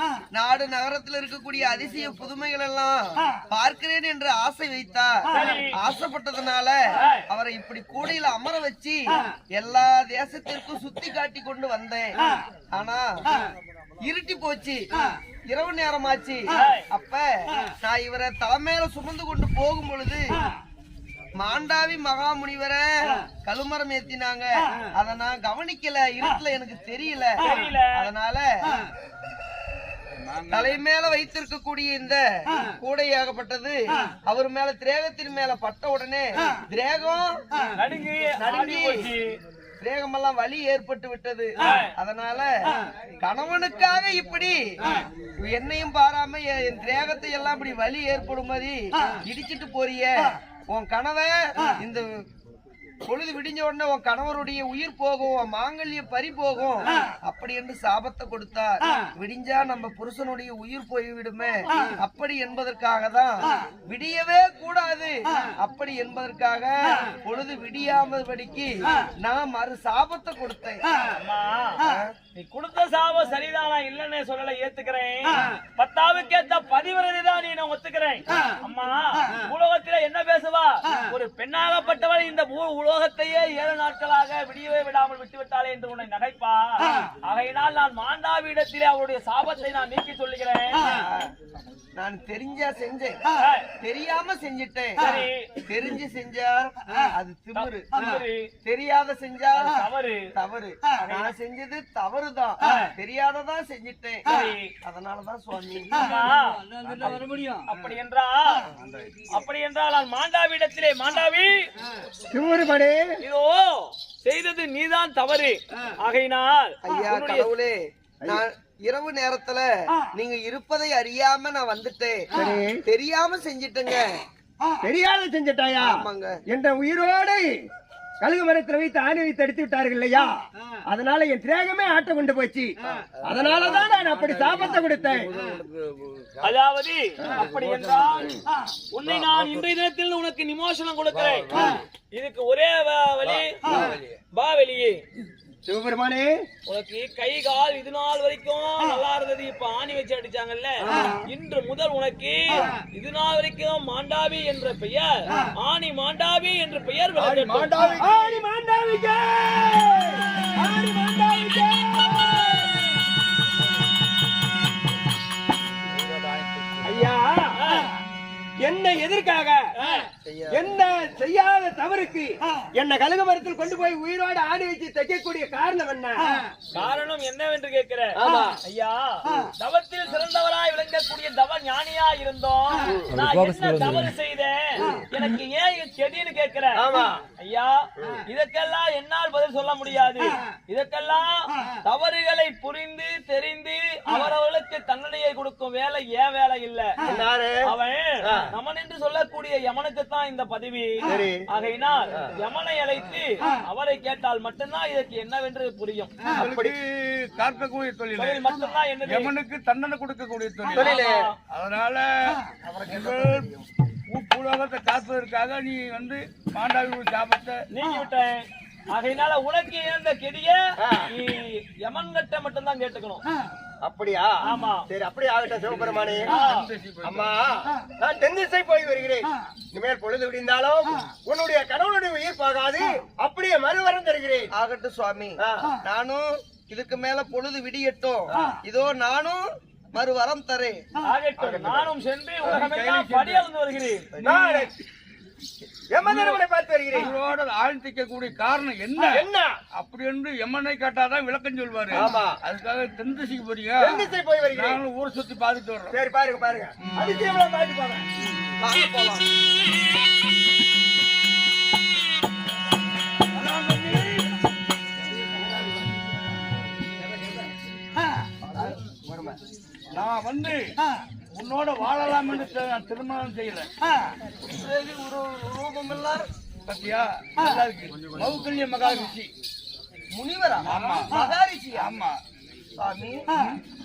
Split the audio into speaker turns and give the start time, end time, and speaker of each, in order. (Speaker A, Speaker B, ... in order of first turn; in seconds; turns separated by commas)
Speaker A: 0.3-12.2, Speaker B: 5.3-5.7, Speaker B: 6.9-7.2, Speaker A: 12.7-13.2, Speaker A: 14.0-14.9, Speaker A: 15.5-20.4, Speaker B: 16.5-16.9, Speaker A: 21.4-28.8, Speaker B: 27.4-28.0, Speaker C: 30.3-30.8, Speaker A: 30.5-37.4, Speaker B: 37.8-39.4, Speaker A: 38.4-39.0, Speaker A: 39.8-52.1, Speaker B: 41.6-41.9, Speaker A: 53.0-70.9, Speaker B: 71.1-71.8, Speaker A: 71.8-72.1, Speaker B: 72.4-90.8, Speaker A: 90.8-91.3, Speaker A: 92.0-93.2, Speaker B: 93.3-93.7, Speaker A: 93.8-95.0, Speaker B: 95.0-95.5, Speaker A: 95.7-97.9, Speaker B: 97.5-98.5, Speaker A: 98.6-99.7, Speaker B: 99.6-100.3, Speaker A: 100.4-104.2, Speaker B: 101.0-101.3, Speaker B: 102.6-102.9, Speaker B: 104.2-104.7, Speaker A: 104.8-106.0, Speaker B: 105.9-106.6, Speaker C: 106.8-107.5, Speaker B: 107.6-108.7, Speaker B: 109.3-111.7, Speaker D: 112.3-113.2, Speaker B: 113.2-117.5, Speaker A: 116.8-117.8, Speaker A: 118.3-124.2, Speaker D: 122.3-122.8, Speaker D: 124.8-125.9, Speaker A: 125.8-126.4, Speaker D: 126.5-127.5, Speaker D: 128.2-130.3, Speaker D: 130.9-132.7, Speaker D: 133.2-135.3, Speaker B: 136.4-138.3, Speaker D: 137.2-137.5, Speaker D: 138.1-138.4, Speaker B: 138.9-143.8, Speaker D: 143.7-144.0, Speaker B: 144.3-145.0, Speaker D: 145.7-146.4, Speaker B: 146.7-158.0, Speaker D: 150.8-151.2, Speaker C: 157.2-158.4, Speaker D: 158.0-162.9, Speaker C: 165.9-167.1, Speaker D: 166.8-167.6, Speaker B: 167.6-167.9, Speaker D: 168.6-169.6, Speaker B: 169.8-170.1, Speaker A: 170.2-170.5, Speaker D: 170.5-176.4, Speaker B: 176.7-186.8, Speaker D: 178.2-178.6, Speaker D: 186.8-187.2, Speaker B: 187.4-197.0, Speaker D: 197.0-197.7, Speaker B: 197.7-206.2, Speaker D: 198.2-198.5, Speaker D: 201.0-201.4, Speaker D: 206.3-206.7, Speaker C: 206.3-208.4, Speaker B: 208.2-209.3, Speaker C: 209.1-213.5, Speaker D: 210.7-211.2, Speaker B: 210.7-211.3, Speaker A: 212.7-213.2, Speaker C: 214.1-217.6, Speaker B: 217.7-223.2, Speaker D: 220.8-221.1, Speaker D: 223.8-226.3, Speaker B: 224.4-224.8, Speaker C: 225.8-227.3, Speaker B: 226.3-226.7, Speaker D: 227.0-234.5, Speaker A: 234.5-239.4, Speaker D: 235.4-235.7, Speaker A: 239.9-240.8, Speaker B: 241.0-244.1, Speaker D: 241.4-241.9, Speaker C: 242.4-243.4, Speaker C: 244.2-244.7, Speaker D: 244.2-244.7, Speaker D: 245.9-247.1, Speaker C: 246.0-246.4, Speaker C: 246.9-256.0, Speaker D: 249.0-249.5, Speaker D: 251.9-252.4, Speaker D: 253.8-254.8, Speaker D: 255.9-258.1, Speaker C: 256.8-257.2, Speaker A: 258.6-259.4, Speaker C: 263.3-264.3, Speaker D: 269.1-269.4, Speaker C: 269.9-270.6, Speaker C: 271.3-273.7, Speaker A: 274.4-276.2, Speaker C: 276.7-279.3, Speaker A: 280.1-281.9, Speaker C: 280.6-281.2, Speaker C: 281.7-282.1, Speaker A: 282.8-283.2